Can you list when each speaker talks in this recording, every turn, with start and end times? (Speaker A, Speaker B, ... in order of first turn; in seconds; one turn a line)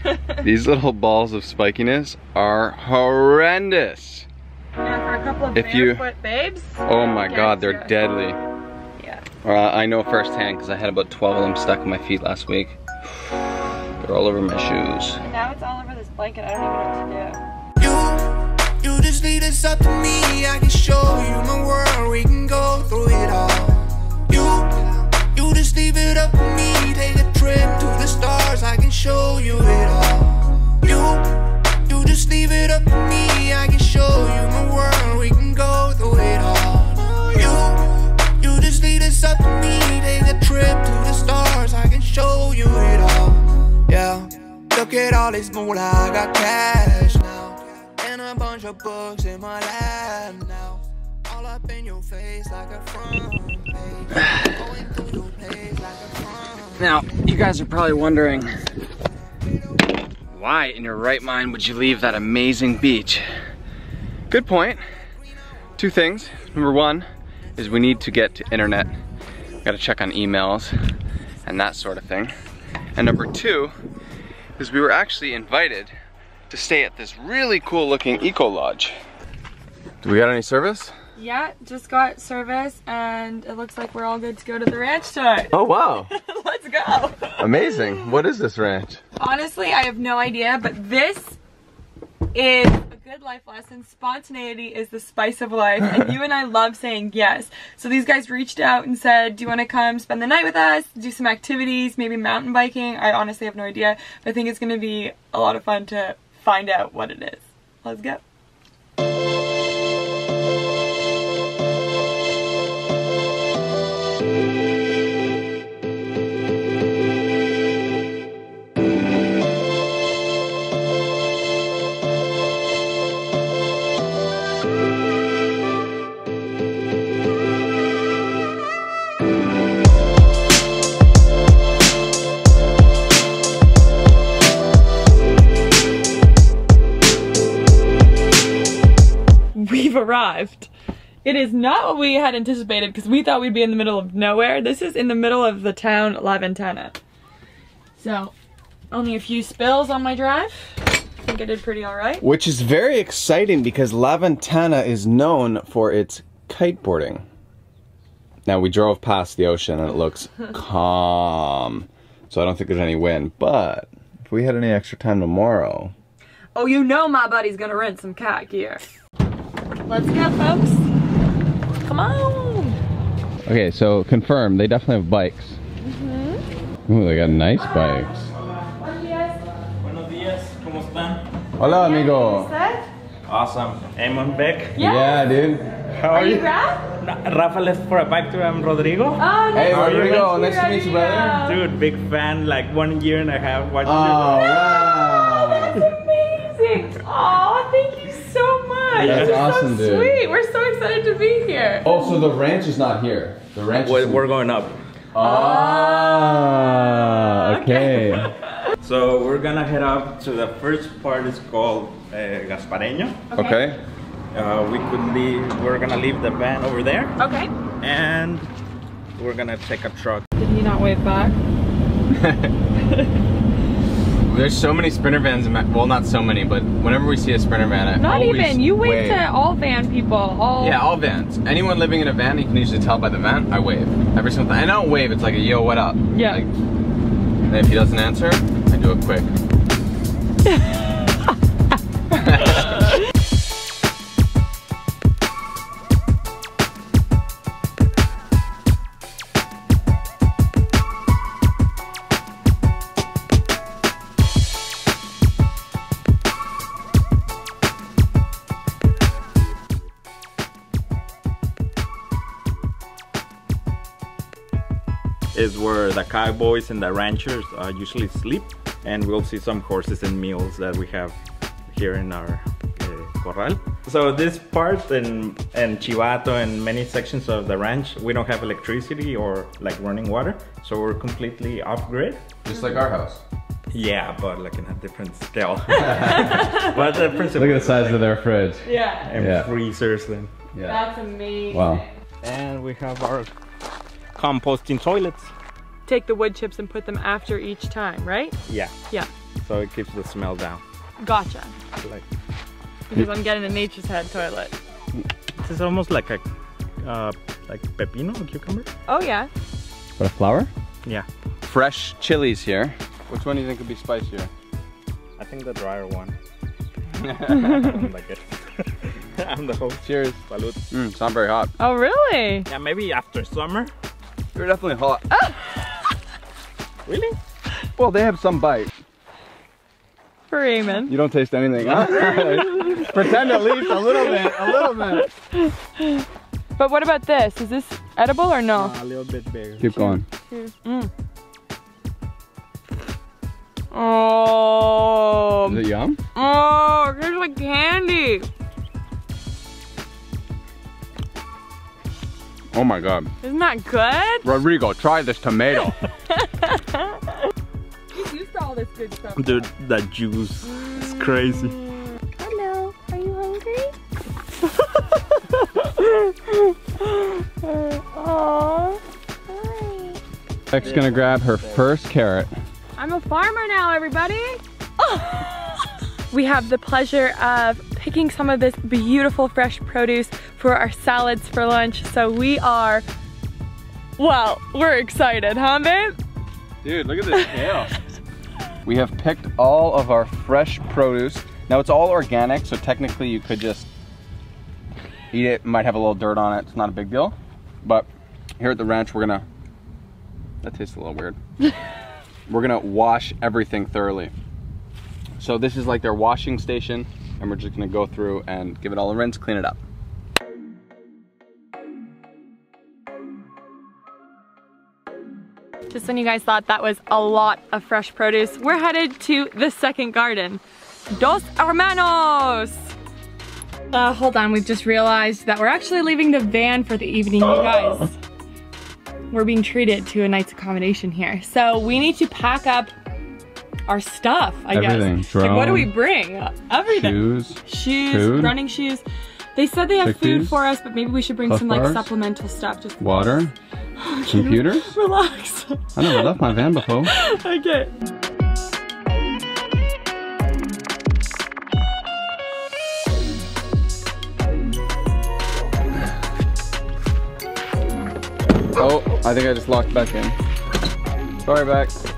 Speaker A: 0.4-4.3
Speaker B: 4.8-7.9
Speaker A: 5.5-6.0
Speaker A: 6.8-8.4
Speaker B: 9.0-9.2
Speaker A: 9.4-12.8
Speaker A: 14.0-15.2
Speaker B: 15.2-17.4
Speaker C: 17.8-57.0
Speaker A: 56.8-58.5
Speaker A: 60.3-63.2
Speaker A: 64.3-64.8
Speaker A: 65.8-68.9
Speaker A: 69.6-70.7
Speaker A: 71.4-72.3
Speaker A: 72.9-73.7
Speaker A: 74.6-75.9
Speaker A: 76.5-79.0
Speaker A: 80.0-80.9
Speaker B: 81.2-88.0
Speaker A: 85.5-86.1
Speaker A: 87.4-89.0
Speaker B: 89.2-91.4
Speaker B: 92.3-108.2
Speaker B: 139.5-140.7
Speaker B: 141.2-147.0
Speaker B: 148.0-148.3
Speaker B: 148.9-152.2
Speaker A: 152.2-157.2
Speaker A: 158.4-165.9
Speaker B: 166.5-168.8
Speaker B: 169.8-170.8
Speaker B: 171.8-172.8
Speaker A: 173.4-175.6
Speaker B: 175.8-176.4
Speaker A: 176.8-178.3
Speaker B: 177.6-179.5
Speaker D: 179.8-181.2
Speaker A: 181.6-182.5
Speaker B: 181.6-182.9
Speaker D: 183.3-184.8
Speaker B: 184.8-185.3
Speaker A: 184.8-185.7
Speaker D: 185.9-186.5
Speaker B: 186.1-186.9
Speaker D: 187.0-190.3
Speaker B: 189.2-191.6
Speaker A: 189.5-191.4
Speaker D: 191.3-194.4
Speaker A: 193.8-195.8
Speaker B: 194.2-202.1
Speaker D: 198.9-199.5
Speaker A: 199.0-200.2
Speaker A: 201.8-204.2
Speaker D: 203.7-204.8
Speaker A: 205.1-208.3
Speaker B: 205.2-208.7
Speaker D: 208.8-213.3
Speaker B: 213.3-213.7
Speaker A: 213.3-213.8
Speaker D: 214.3-217.2
Speaker B: 217.2-217.5
Speaker D: 217.8-218.5
Speaker D: 219.2-220.2
Speaker B: 220.4-221.4
Speaker A: 222.1-222.5
Speaker A: 224.2-229.2
Speaker B: 228.0-230.8
Speaker A: 230.6-236.5
Speaker B: 236.1-236.4
Speaker A: 237.5-239.3
Speaker A: 242.1-242.7
Speaker D: 265.3-282.2
Speaker A: 282.4-283.2
Speaker D: 283.7-288.1
Speaker B: 285.7-286.7
Speaker A: 285.8-286.6
Speaker A: 287.3-289.5
Speaker B: 288.6-289.1
Speaker D: 289.1-290.3
Speaker A: 290.5-290.8
Speaker B: 290.6-291.9
Speaker A: 291.5-291.8
Speaker D: 292.2-293.3
Speaker D: 294.1-295.3
Speaker B: 295.9-298.3
Speaker D: 298.5-298.7
Speaker D: 299.4-300.6
Speaker B: 301.0-301.5
Speaker D: 301.8-302.0
Speaker B: 302.9-304.6
Speaker D: 305.4-306.2
Speaker D: 306.8-308.7
Speaker B: 308.9-309.3
Speaker A: 310.0-310.5
Speaker A: 311.4-314.3
Speaker D: 315.2-316.1
Speaker A: 317.0-317.6
Speaker D: 317.1-320.6
Speaker A: 319.8-320.2
Speaker A: 320.7-321.5
Speaker B: 321.6-322.5
Speaker D: 322.5-323.7
Speaker A: 324.3-325.1
Speaker B: 325.1-325.4
Speaker D: 326.9-327.2
Speaker A: 327.8-328.7
Speaker B: 330.3-330.9
Speaker A: 330.9-335.1
Speaker D: 331.6-332.4
Speaker B: 332.0-332.9
Speaker B: 333.6-336.0
Speaker B: 336.6-338.8
Speaker D: 338.5-339.6
Speaker A: 339.6-340.1
Speaker B: 339.6-340.9
Speaker B: 343.7-348.3
Speaker A: 345.4-346.0
Speaker A: 352.5-353.1
Speaker B: 353.2-354.3
Speaker A: 354.2-355.8
Speaker B: 356.1-357.0
Speaker B: 357.9-359.5
Speaker D: 359.2-361.6
Speaker B: 360.5-361.6
Speaker B: 362.2-363.7
Speaker B: 365.6-369.9
Speaker A: 370.5-372.3
Speaker D: 370.5-371.7
Speaker B: 372.8-382.9
Speaker B: 384.0-386.0
Speaker A: 386.6-387.7
Speaker A: 388.6-393.7
Speaker A: 395.1-397.9
Speaker A: 398.4-399.2
Speaker A: 400.4-401.2
Speaker A: 402.3-404.1
Speaker A: 405.2-409.6
Speaker B: 415.7-422.7
Speaker B: 423.7-428.0
Speaker B: 429.1-432.7
Speaker B: 433.7-438.8
Speaker A: 434.5-435.7
Speaker A: 436.7-438.4
Speaker B: 439.3-446.1
Speaker A: 439.8-440.4
Speaker A: 441.3-441.9
Speaker A: 442.8-443.3
Speaker A: 444.1-444.7
Speaker A: 445.8-446.9
Speaker B: 446.8-447.7
Speaker A: 458.5-460.2
Speaker A: 461.2-461.8